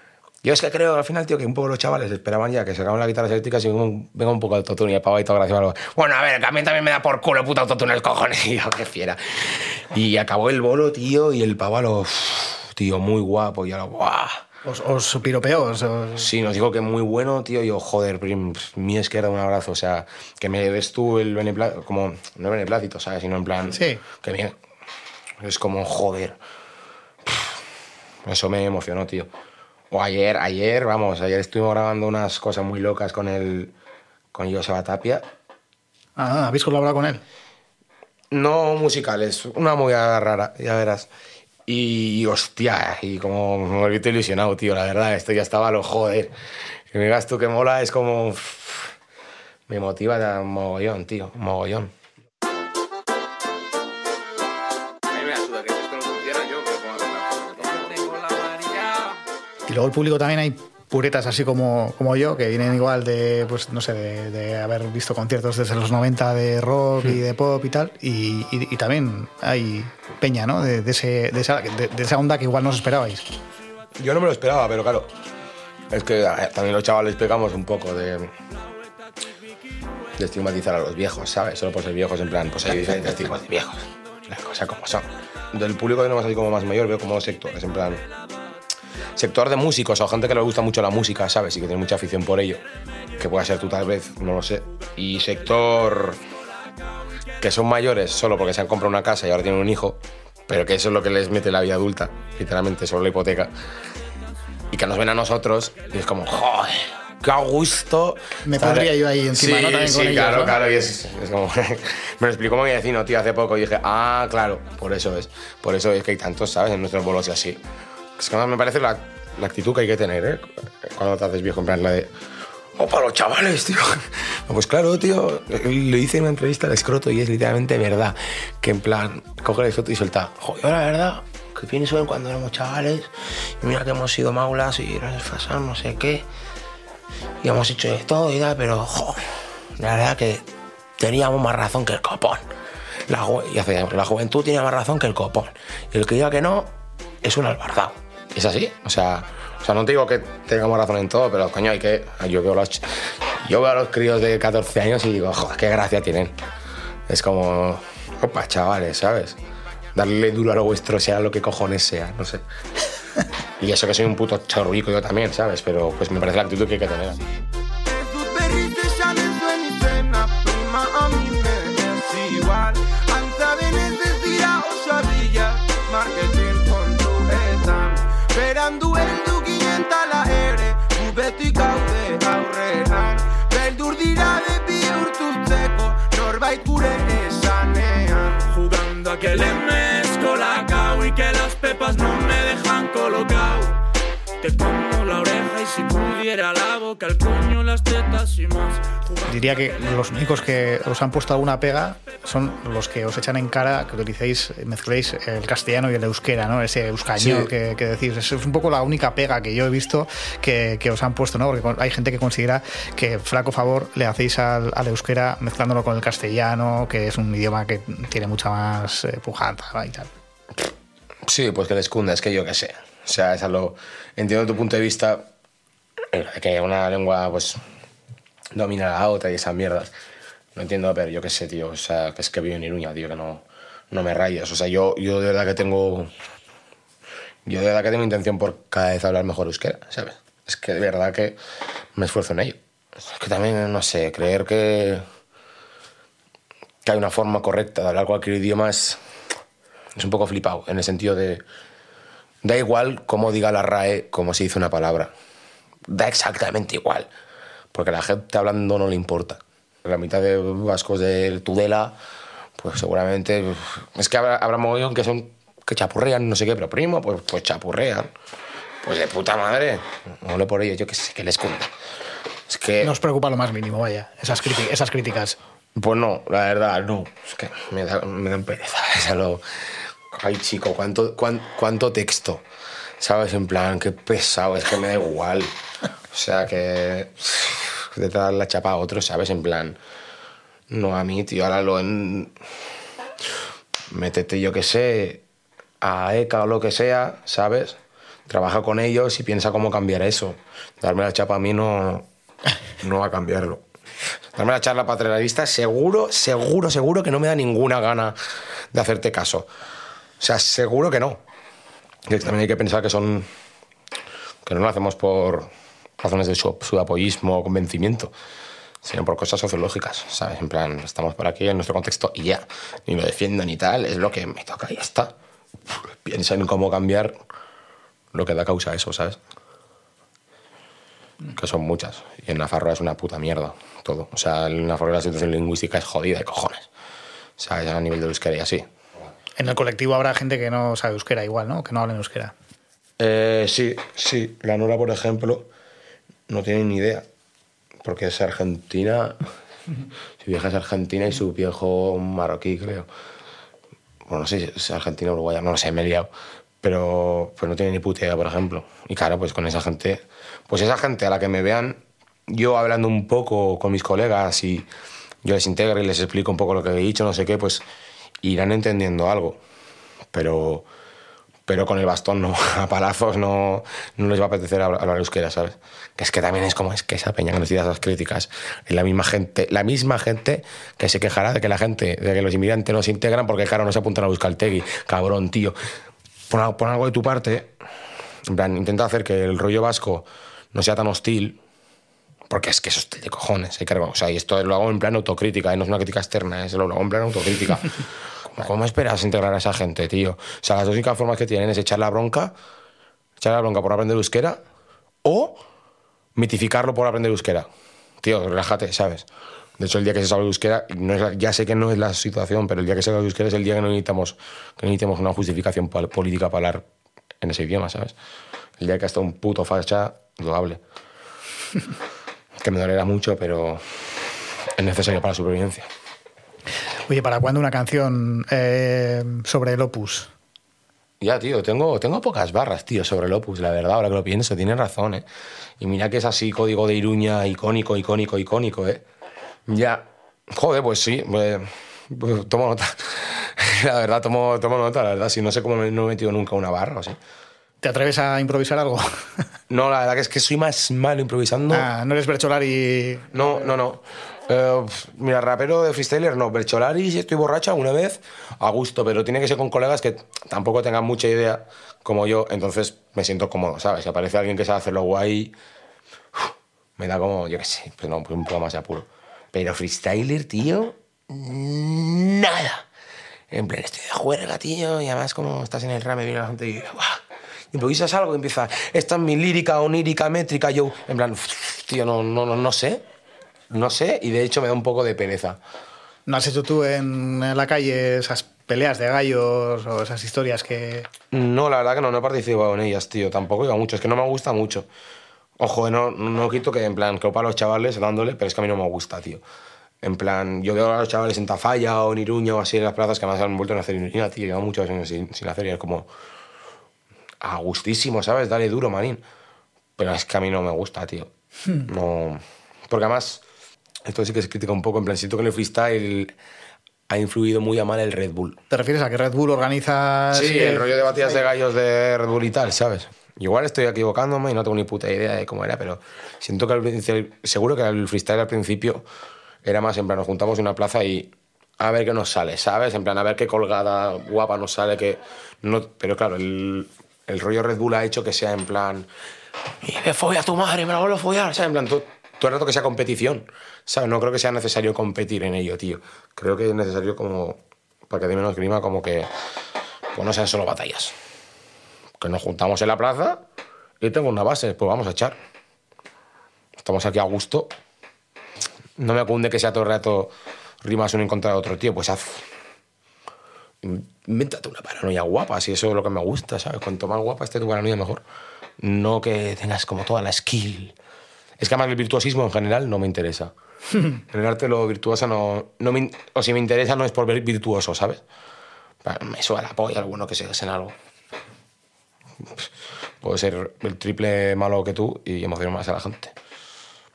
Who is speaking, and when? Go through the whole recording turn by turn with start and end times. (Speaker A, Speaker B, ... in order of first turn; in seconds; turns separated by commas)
Speaker A: 0.4-14.4, Speaker B: 14.6-16.3, Speaker A: 16.2-24.6, Speaker B: 23.7-24.0, Speaker A: 25.4-26.4, Speaker A: 27.2-27.6, Speaker A: 28.2-29.3, Speaker A: 29.9-33.7, Speaker A: 34.3-35.2, Speaker B: 36.2-37.2, Speaker A: 38.3-41.1, Speaker A: 41.7-46.3, Speaker A: 46.9-48.9, Speaker A: 49.7-51.9, Speaker A: 55.7-56.8, Speaker C: 57.8-58.8, Speaker B: 59.7-73.2, Speaker A: 74.0-75.1, Speaker A: 75.9-78.3, Speaker A: 80.2-88.0, Speaker A: 89.1-92.6, Speaker A: 93.2-96.2, Speaker A: 97.4-103.5, Speaker A: 104.7-117.6, Speaker B: 108.4-110.6, Speaker A: 118.2-122.1, Speaker A: 122.7-136.2, Speaker A: 137.4-142.5, Speaker A: 143.1-156.3, Speaker A: 157.1-159.4, Speaker A: 159.9-162.4, Speaker A: 163.6-167.3, Speaker C: 167.9-188.4, Speaker D: 188.5-193.4, Speaker C: 192.9-193.7, Speaker D: 194.4-198.9, Speaker B: 199.3-220.1, Speaker A: 207.2-207.5, Speaker A: 221.2-225.3, Speaker A: 226.1-227.6, Speaker A: 228.5-229.9, Speaker A: 230.5-236.1, Speaker A: 237.4-241.4, Speaker A: 241.9-245.0, Speaker A: 246.8-249.0, Speaker A: 249.9-251.4, Speaker A: 252.4-255.1, Speaker A: 255.9-257.1, Speaker A: 257.7-262.0, Speaker A: 262.6-268.1, Speaker A: 268.8-271.7, Speaker A: 272.5-272.9, Speaker B: 272.8-275.4, Speaker A: 275.7-282.4, Speaker A: 283.0-285.5, Speaker A: 286.1-289.8, Speaker A: 290.7-292.3, Speaker A: 293.9-295.2, Speaker A: 295.8-302.1, Speaker A: 302.8-303.6, Speaker A: 304.3-308.1, Speaker A: 308.7-309.5, Speaker A: 310.2-311.2, Speaker A: 312.1-313.3, Speaker A: 314.4-318.1, Speaker A: 318.8-325.1, Speaker A: 325.7-327.1, Speaker A: 328.1-329.2, Speaker A: 331.3-336.7, Speaker A: 337.4-338.7, Speaker B: 339.4-342.3, Speaker A: 343.0-345.5, Speaker A: 346.3-347.1, Speaker A: 347.8-349.2, Speaker A: 350.2-352.9, Speaker A: 354.1-356.1, Speaker A: 356.6-364.7, Speaker A: 365.2-367.6, Speaker A: 368.2-369.4, Speaker A: 370.1-370.7, Speaker A: 371.5-385.6, Speaker A: 386.3-387.5, Speaker A: 388.3-391.4, Speaker A: 392.3-402.4, Speaker A: 403.2-404.4, Speaker A: 405.0-405.4, Speaker A: 406.1-407.5, Speaker A: 408.0-409.1, Speaker A: 409.6-416.6, Speaker A: 417.2-417.9, Speaker A: 418.6-420.6, Speaker A: 422.4-425.7, Speaker B: 426.9-430.1, Speaker A: 431.0-435.1, Speaker A: 435.6-438.8, Speaker A: 439.5-447.0, Speaker B: 447.6-448.9, Speaker A: 449.5-451.7, Speaker B: 451.5-453.1, Speaker A: 453.1-465.3, Speaker A: 466.1-472.6, Speaker A: 473.3-482.8, Speaker A: 483.5-485.4, Speaker B: 486.1-490.9, Speaker A: 491.1-494.7, Speaker A: 495.4-499.2, Speaker A: 499.8-505.9, Speaker A: 507.2-509.0, Speaker A: 509.8-511.1, Speaker A: 511.6-513.2, Speaker A: 513.9-516.1, Speaker A: 516.9-518.4, Speaker B: 518.5-521.1, Speaker A: 520.1-528.9, Speaker A: 529.4-538.9, Speaker A: 539.6-549.1, Speaker A: 549.9-550.9, Speaker A: 552.0-553.2, Speaker A: 553.8-555.2, Speaker A: 556.6-557.5, Speaker A: 558.8-562.3, Speaker A: 563.6-568.0, Speaker A: 568.6-570.8, Speaker A: 571.4-573.3, Speaker A: 573.9-578.0, Speaker A: 578.8-580.7, Speaker A: 582.2-582.5, Speaker A: 583.0-586.1